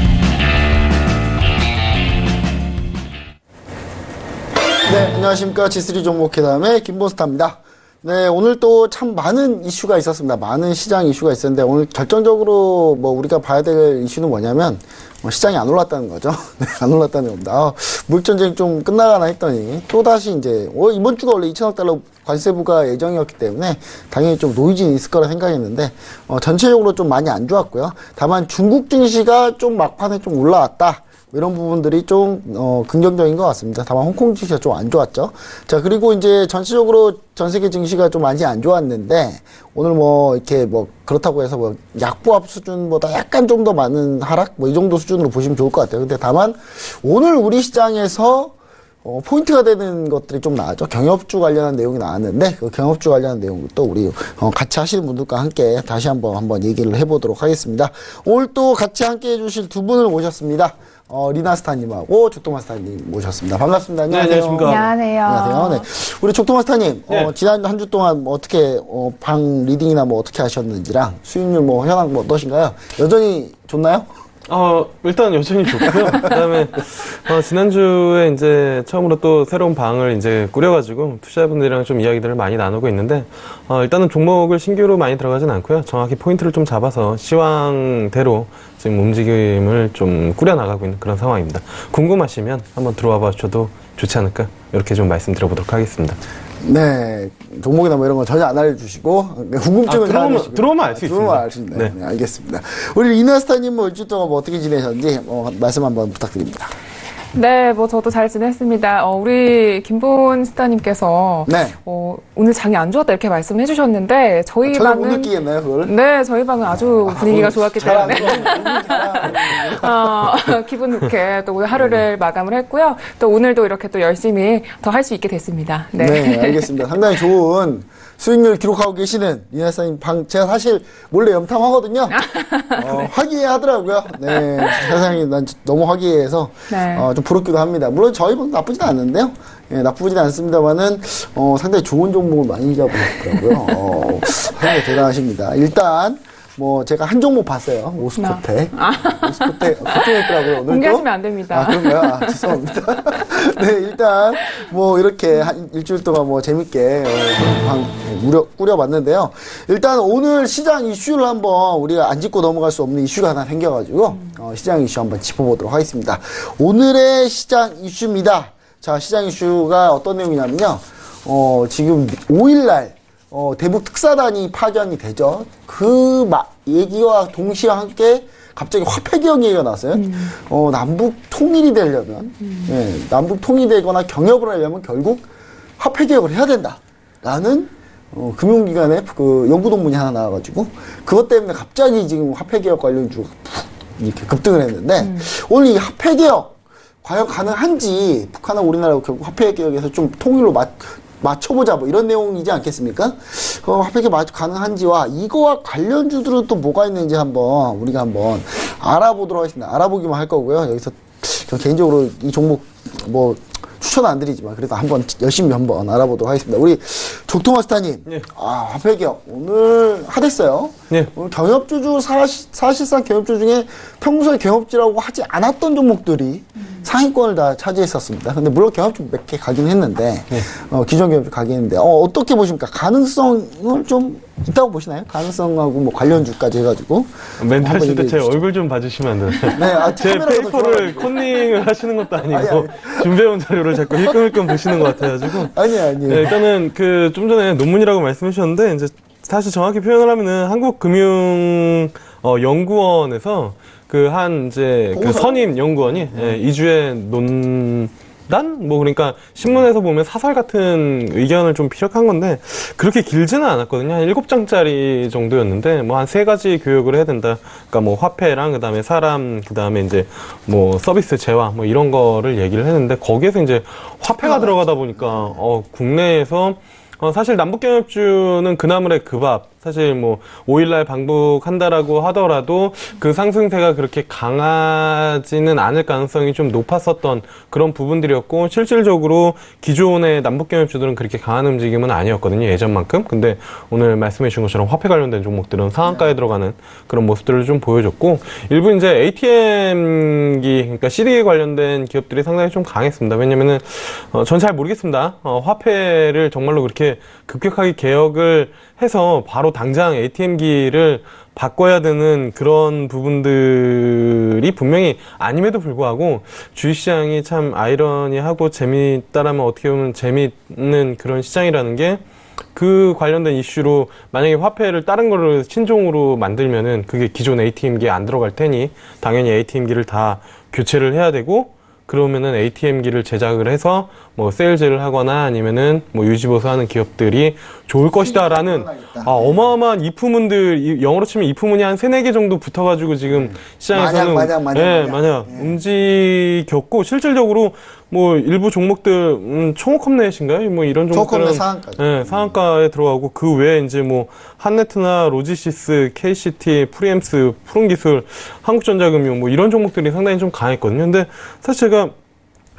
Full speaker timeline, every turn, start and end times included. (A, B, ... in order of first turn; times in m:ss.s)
0:04.8-1:14.1 A
1:04.1-1:04.9 B
1:04.6-1:05.8 C
1:14.5-1:36.2 B
1:36.6-1:46.7 A
1:39.9-1:41.9 B
1:47.3-1:55.3 C
1:51.5-1:51.7 A
1:54.6-1:55.9 A
1:55.8-2:06.7 C
1:56.7-2:00.3 A
1:57.3-1:58.6 B
2:06.0-2:12.2 A
2:12.1-2:13.1 C
2:12.8-3:05.2 A
2:16.7-2:17.1 C
2:28.2-2:32.6 C
3:00.0-3:00.3 C
3:05.8-3:58.4 A
3:15.0-3:15.3 C
3:57.4-5:22.0 B
3:59.5-4:01.2 A
4:02.2-4:03.1 A
4:03.7-4:06.4 A
4:14.9-4:15.5 A
4:16.1-4:16.4 A
4:34.2-4:35.3 A
4:55.8-4:56.1 A
5:22.5-6:01.9 B
5:37.9-5:39.5 A
5:43.1-5:45.6 A
5:50.9-5:52.4 A